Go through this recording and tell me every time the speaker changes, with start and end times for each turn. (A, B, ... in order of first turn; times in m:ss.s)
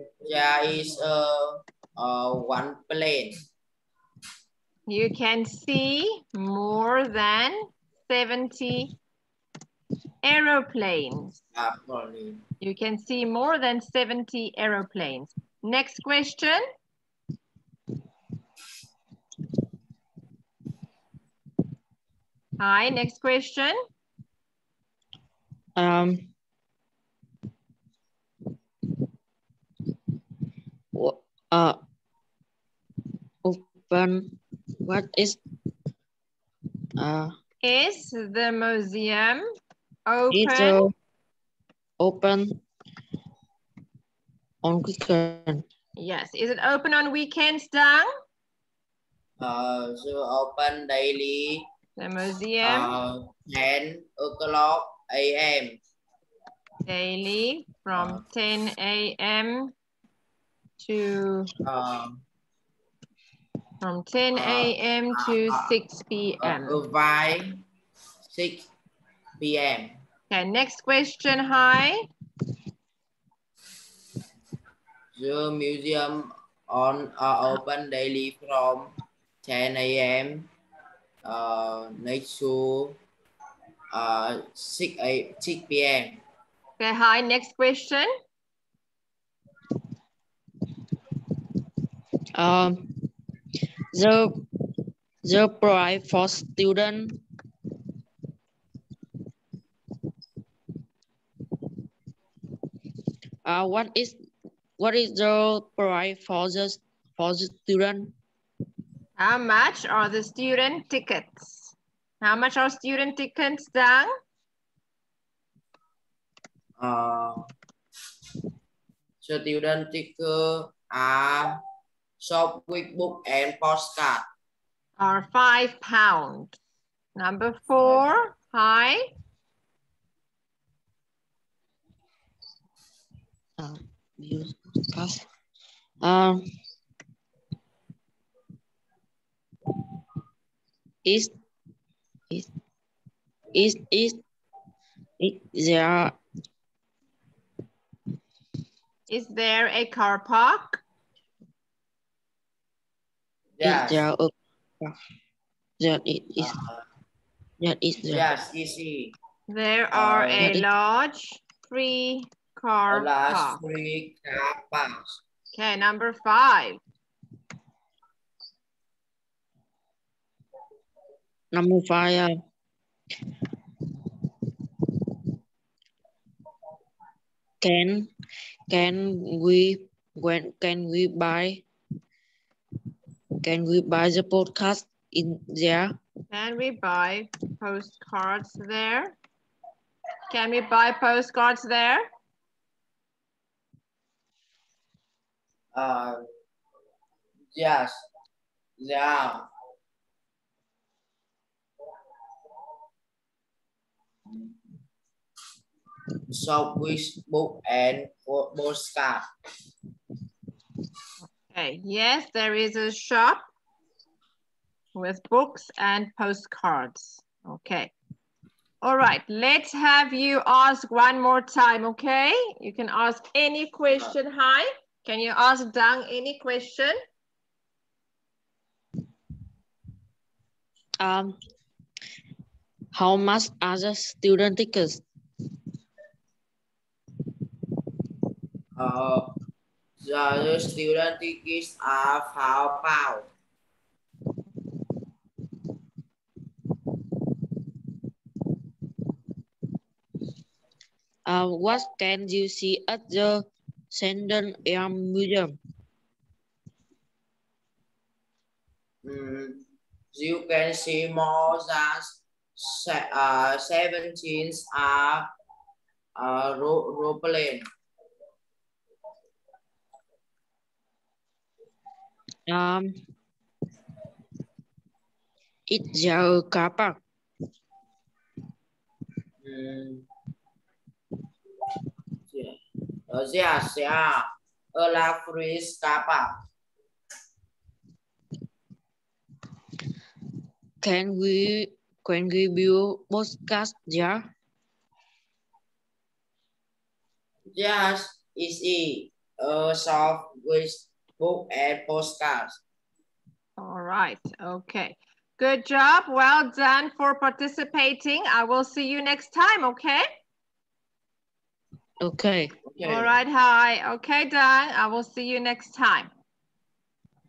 0:00.2-0:03.4 A
0:04.9-0:08.9 B
0:10.2-0:11.4 B
0:11.5-0:12.4 A
0:12.6-0:16.6 B
0:22.6-0:23.8 B
0:25.8-0:26.3 C
0:30.9-0:31.8 C
0:33.4-0:35.4 C
0:37.0-0:37.3 C
0:37.6-0:39.4 B
0:40.1-0:40.9 B
0:40.3-0:40.9 C
0:42.0-0:42.6 C
0:44.6-0:45.6 C
0:46.0-0:48.1 B
0:49.4-0:51.6 A
0:52.0-0:52.9 B
0:52.6-0:55.8 A
0:56.8-0:59.7 B
0:57.9-0:58.2 A
1:00.8-1:01.5 B
1:01.6-1:02.2 A
1:03.8-1:06.8 B
1:04.3-1:05.6 A
1:06.4-1:07.6 A
1:08.2-1:08.7 A
1:09.4-1:10.0 A
1:10.3-1:12.0 B
1:15.1-1:18.9 A
1:19.4-1:20.5 A
1:21.2-1:23.0 A
1:23.9-1:26.2 A
1:26.8-1:28.1 B
1:32.4-1:32.9 C
1:33.9-1:34.4 C
1:35.2-1:37.2 C
1:43.4-1:44.2 C
1:44.8-1:48.1 C
1:49.2-1:54.1 B
1:56.8-1:57.4 A
1:59.2-2:01.6 A
2:02.2-2:04.2 A
2:05.0-2:06.6 B
2:07.2-2:09.0 B
2:13.6-2:15.2 C
2:16.0-2:16.5 C
2:21.0-2:21.3 C
2:23.5-2:24.2 C
2:25.2-2:26.1 C
2:29.1-2:30.8 B
2:33.6-2:34.0 A
2:33.6-2:34.9 C
2:35.8-2:36.5 C
2:36.4-2:36.8 A
2:37.6-2:38.2 C
2:38.1-2:39.1 A
2:39.5-2:43.6 B
2:39.9-2:40.5 A
2:40.4-2:40.6 C
2:42.9-2:45.2 A
2:45.5-2:46.8 B
2:51.5-2:52.3 C
2:57.6-2:58.1 C
2:58.7-3:01.6 C
3:03.4-3:05.9 C
3:06.3-3:09.2 B
3:10.3-3:12.0 B
3:15.7-3:16.2 A
3:17.5-3:18.0 A
3:18.8-3:19.4 A
3:24.3-3:24.5 A
3:26.3-3:29.2 A
3:31.4-3:33.4 B
3:34.9-3:37.9 B
3:38.8-3:47.0 B
3:51.0-3:51.4 C
3:52.9-3:55.0 C
3:58.8-3:59.3 A
4:00.0-4:03.3 A
4:11.3-4:15.6 C
4:19.0-4:25.3 A
4:26.2-4:27.6 A
4:32.5-4:32.9 C
4:35.7-4:37.0 C
4:39.4-4:40.0 A
4:42.3-4:42.6 A
4:43.1-4:46.3 A
4:50.8-4:54.3 C
4:57.5-5:02.6 A
5:03.6-5:10.0 B
5:12.0-5:12.5 C
5:12.7-5:13.1 A
5:12.8-5:16.1 B